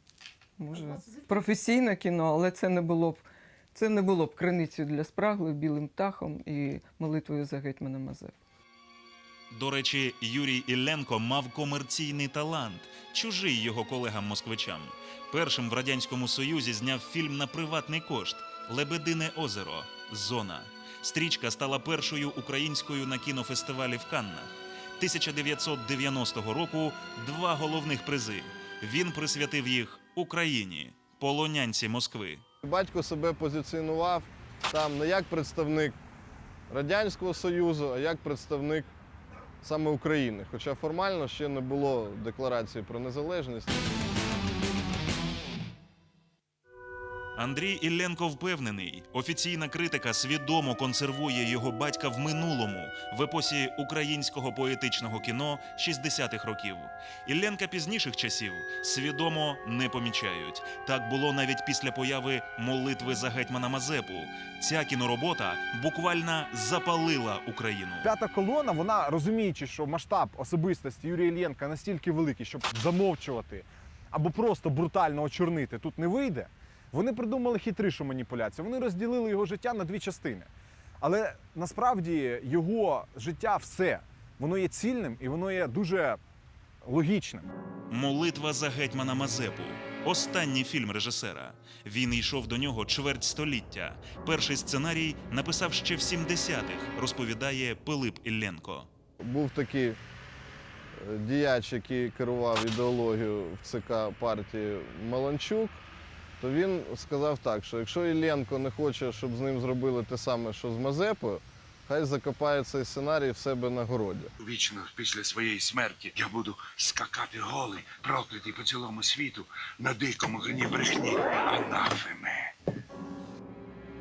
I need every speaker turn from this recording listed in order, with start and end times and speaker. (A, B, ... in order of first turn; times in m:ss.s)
0:00.6-0:08.4 A
0:09.5-0:32.4 B
0:32.6-0:36.0 C
0:36.7-0:38.9 C
0:39.6-0:43.8 C
0:47.4-1:08.1 B
1:08.0-1:20.5 D
1:21.0-1:26.2 D
1:26.8-1:27.5 D
1:27.9-1:38.9 B
1:39.2-1:40.0 C
1:41.0-1:45.8 C
1:46.4-1:54.3 C
1:54.4-2:02.5 E